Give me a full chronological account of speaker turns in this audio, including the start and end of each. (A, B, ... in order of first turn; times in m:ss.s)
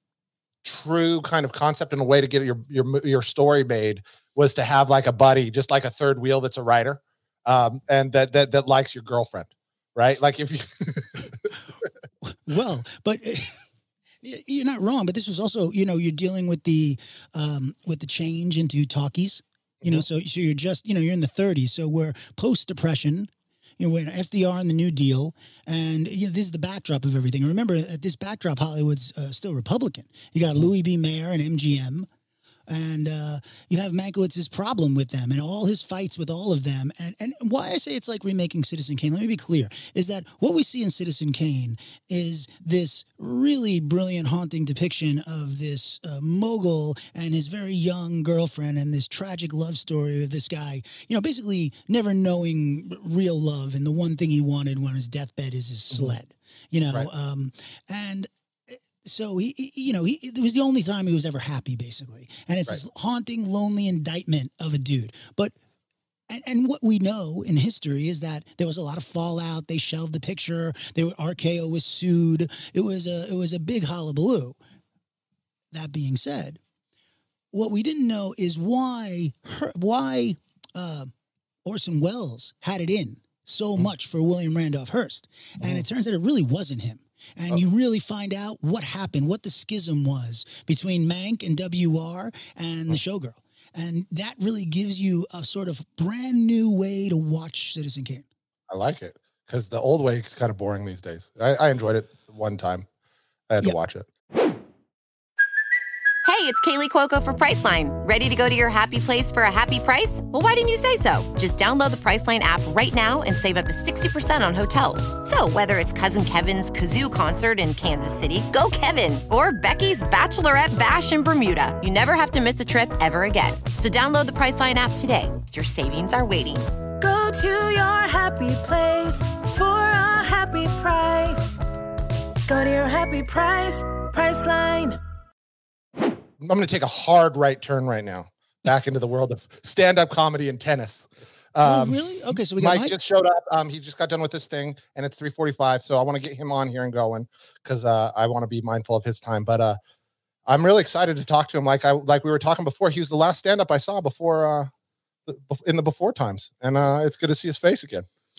0:00.6-0:11.5 A
0:12.2-0:13.6 B
0:14.2-0:32.1 B
0:32.7-1:05.5 B
1:06.3-1:14.6 B
1:15.7-1:16.6 B
1:17.5-1:21.1 B
1:21.6-1:38.2 B
1:38.7-1:42.8 A
1:43.5-1:44.1 A
1:46.2-2:06.7 C
2:07.0-2:11.6 D
2:12.5-2:15.0 D
2:16.4-2:29.8 A
2:21.6-2:22.9 B
2:30.5-2:34.7 A
2:35.3-2:38.0 A